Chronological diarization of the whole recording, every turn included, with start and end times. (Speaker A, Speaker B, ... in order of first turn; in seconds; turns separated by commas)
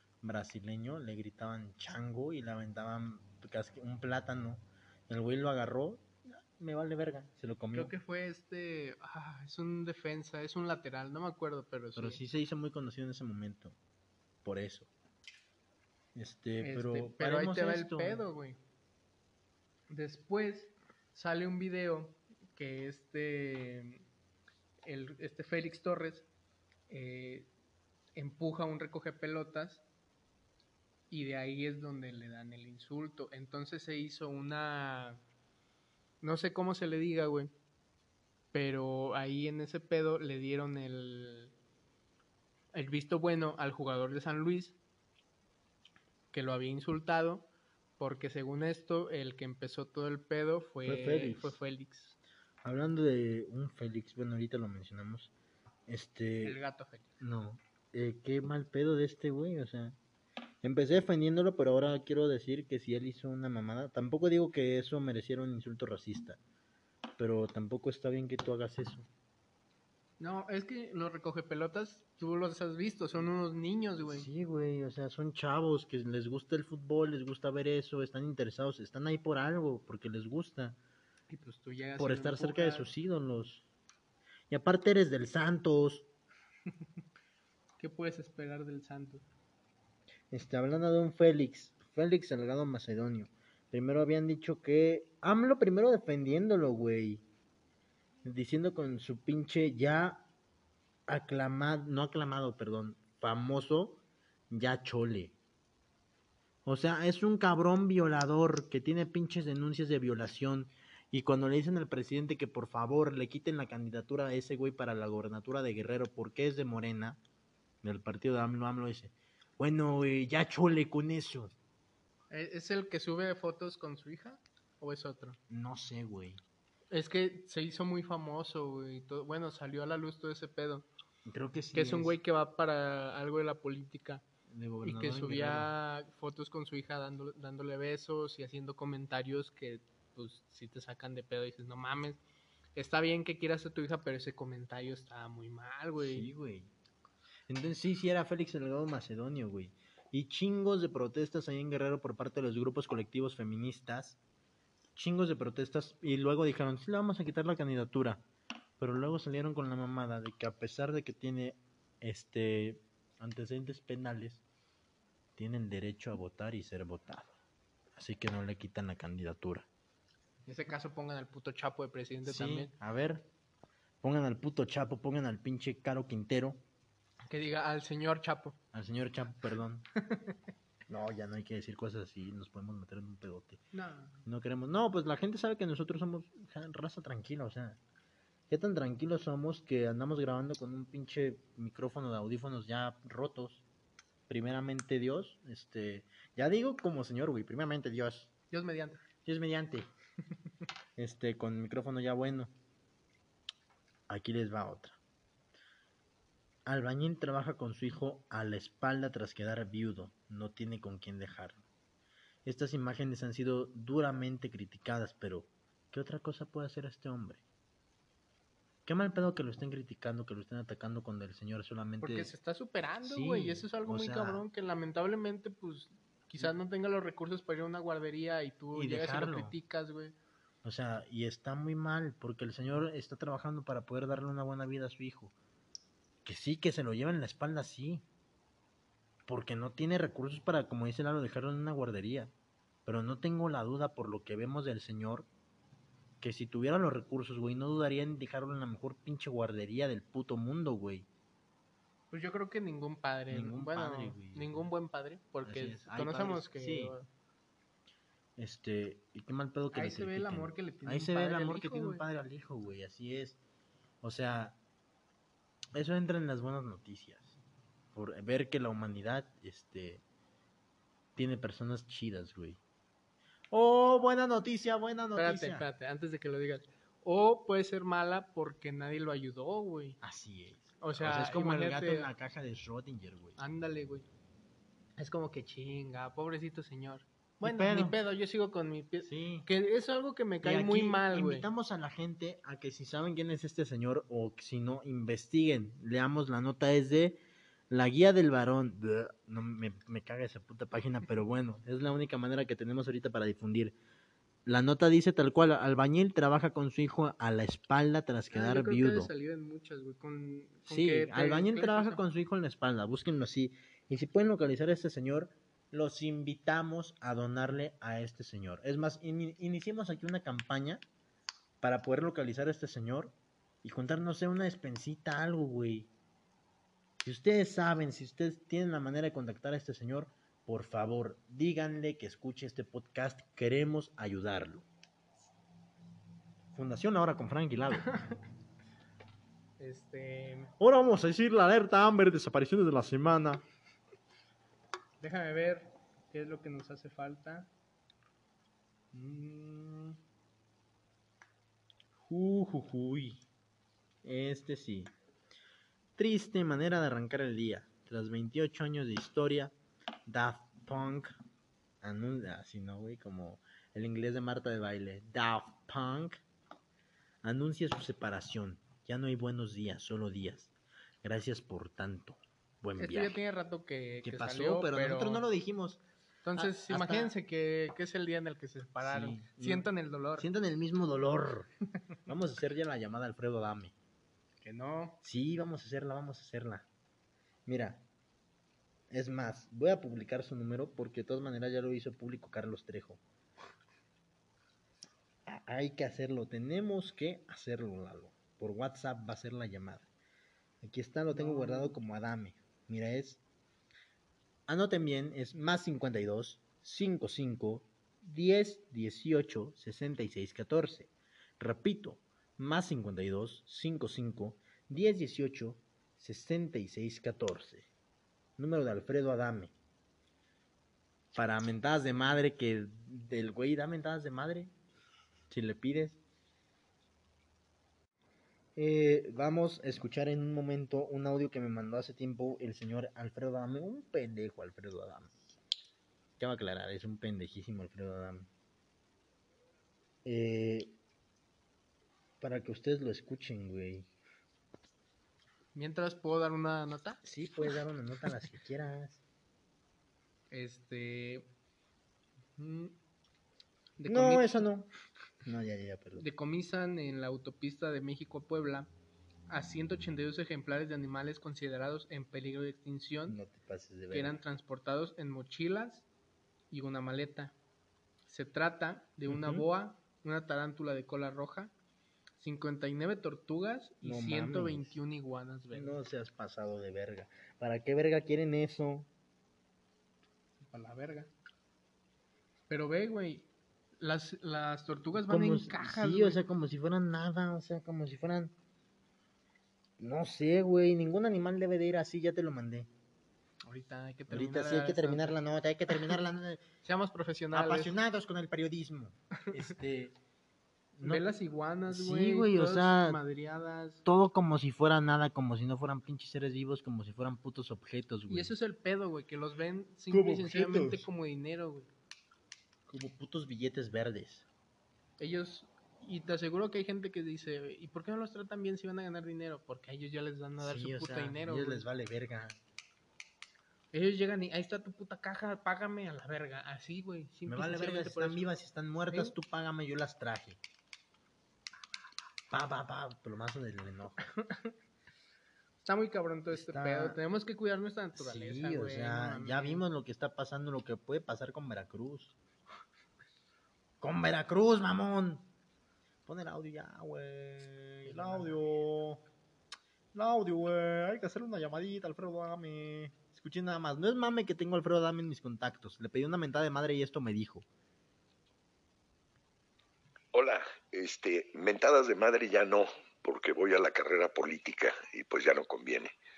Speaker A: 0.2-7.9, Speaker B: 7.7-12.2, Speaker A: 11.9-13.8, Speaker A: 14.4-14.9, Speaker A: 16.1-18.2, Speaker B: 16.6-18.6, Speaker B: 19.9-24.0, Speaker B: 24.8-26.3, Speaker B: 26.9-27.5, Speaker B: 28.1-29.8, Speaker B: 31.1-35.2, Speaker B: 36.2-37.5, Speaker B: 38.5-41.5, Speaker B: 42.7-44.8, Speaker B: 46.3-47.5, Speaker B: 48.0-52.1, Speaker A: 50.8-51.5, Speaker A: 52.6-55.3, Speaker A: 55.9-56.6, Speaker B: 56.4-57.1, Speaker A: 57.2-60.0, Speaker A: 60.6-66.4, Speaker A: 67.2-69.1, Speaker B: 70.2-74.3, Speaker A: 74.0-80.8, Speaker B: 81.3-82.9, Speaker A: 82.0-83.7, Speaker A: 84.5-86.1, Speaker B: 87.8-89.2, Speaker A: 90.3-97.2, Speaker A: 98.2-100.2, Speaker A: 101.1-105.3, Speaker A: 106.6-117.2, Speaker A: 117.8-121.5, Speaker B: 122.3-125.4, Speaker A: 125.5-126.4, Speaker B: 126.9-130.8, Speaker A: 131.2-132.2, Speaker B: 131.7-134.2, Speaker A: 134.5-135.7, Speaker B: 134.8-142.2, Speaker B: 142.8-146.3, Speaker A: 146.0-146.7, Speaker A: 147.5-154.2, Speaker A: 154.9-158.2, Speaker A: 158.8-164.4, Speaker A: 165.4-167.3, Speaker A: 167.9-169.7, Speaker B: 170.4-172.7, Speaker A: 172.2-173.2, Speaker A: 174.0-176.6, Speaker B: 177.3-178.6, Speaker A: 178.7-179.8, Speaker B: 180.0-180.3, Speaker A: 180.9-183.6, Speaker B: 183.7-184.2, Speaker A: 184.2-187.8, Speaker A: 188.5-193.6, Speaker A: 194.3-198.3, Speaker B: 198.5-199.0, Speaker A: 199.2-199.9, Speaker A: 201.0-202.5, Speaker A: 204.1-205.0, Speaker A: 206.7-211.6, Speaker A: 212.4-217.4, Speaker A: 218.8-222.3, Speaker B: 222.0-230.1, Speaker A: 223.0-224.4, Speaker A: 228.7-229.5, Speaker A: 230.6-235.3, Speaker A: 236.2-238.0, Speaker A: 239.3-242.3, Speaker A: 242.8-245.3, Speaker A: 246.2-251.1, Speaker B: 252.1-257.1, Speaker A: 253.3-254.7, Speaker A: 255.4-256.9, Speaker A: 258.4-263.4, Speaker B: 259.7-262.0, Speaker A: 264.0-264.6, Speaker A: 265.7-267.3, Speaker A: 267.9-270.0, Speaker A: 271.1-272.6, Speaker A: 273.5-275.7, Speaker B: 275.1-280.0, Speaker A: 280.0-283.4, Speaker B: 280.8-282.1, Speaker B: 283.4-284.1, Speaker B: 285.0-291.4, Speaker A: 287.4-288.0, Speaker A: 289.0-289.5, Speaker A: 290.4-303.7, Speaker A: 304.4-309.1, Speaker B: 308.3-312.0, Speaker A: 310.7-320.8, Speaker A: 321.6-325.9, Speaker A: 327.0-334.6, Speaker A: 336.5-337.9, Speaker B: 339.6-340.5, Speaker A: 340.6-343.4, Speaker B: 345.0-347.5, Speaker A: 348.9-350.0, Speaker A: 352.0-353.2, Speaker A: 354.0-354.9, Speaker A: 356.0-359.5, Speaker A: 360.1-361.1, Speaker A: 361.8-366.2, Speaker A: 367.2-370.5, Speaker A: 371.0-373.2, Speaker B: 372.8-375.2, Speaker A: 374.0-375.8, Speaker B: 376.2-380.3, Speaker A: 376.4-377.1, Speaker A: 378.8-381.5, Speaker A: 382.1-383.7, Speaker B: 384.4-385.0, Speaker A: 385.0-386.6, Speaker A: 387.4-387.8, Speaker A: 388.9-393.0, Speaker A: 395.2-399.9, Speaker A: 400.6-403.2, Speaker B: 401.1-401.8, Speaker A: 404.5-417.7, Speaker A: 418.4-419.5, Speaker A: 421.1-424.5, Speaker A: 425.3-426.0, Speaker A: 428.6-435.1, Speaker A: 436.2-438.3, Speaker A: 440.0-440.7, Speaker A: 442.2-443.9, Speaker B: 445.5-447.0, Speaker A: 447.0-449.0, Speaker B: 450.3-451.3, Speaker B: 452.4-452.7, Speaker B: 453.8-454.4, Speaker A: 453.9-454.7, Speaker A: 455.2-456.1, Speaker B: 456.0-458.7, Speaker B: 459.3-463.2, Speaker A: 463.1-464.2, Speaker B: 463.9-465.9, Speaker B: 466.5-467.3, Speaker B: 468.1-471.5, Speaker A: 469.1-469.4, Speaker B: 472.2-475.8, Speaker A: 473.8-474.7, Speaker A: 475.5-478.9, Speaker B: 480.4-481.1, Speaker B: 482.5-483.3, Speaker B: 483.8-486.2, Speaker A: 484.9-488.3, Speaker A: 489.8-492.7, Speaker B: 493.4-495.1, Speaker A: 494.1-496.4, Speaker B: 496.6-497.8, Speaker A: 497.3-499.9, Speaker A: 500.8-501.1, Speaker B: 500.8-503.8, Speaker A: 501.7-503.0, Speaker A: 503.8-508.3, Speaker B: 508.1-511.7, Speaker A: 509.9-510.9, Speaker A: 512.7-514.2, Speaker B: 515.0-521.6, Speaker A: 520.4-522.4, Speaker B: 523.7-528.2, Speaker A: 527.2-530.4, Speaker A: 532.3-534.0, Speaker B: 534.2-534.5, Speaker B: 535.6-539.6, Speaker A: 536.3-537.0, Speaker A: 538.0-542.1, Speaker A: 543.8-545.2, Speaker A: 546.0-549.0, Speaker B: 547.9-548.3, Speaker A: 549.9-557.5, Speaker C: 560.1-565.9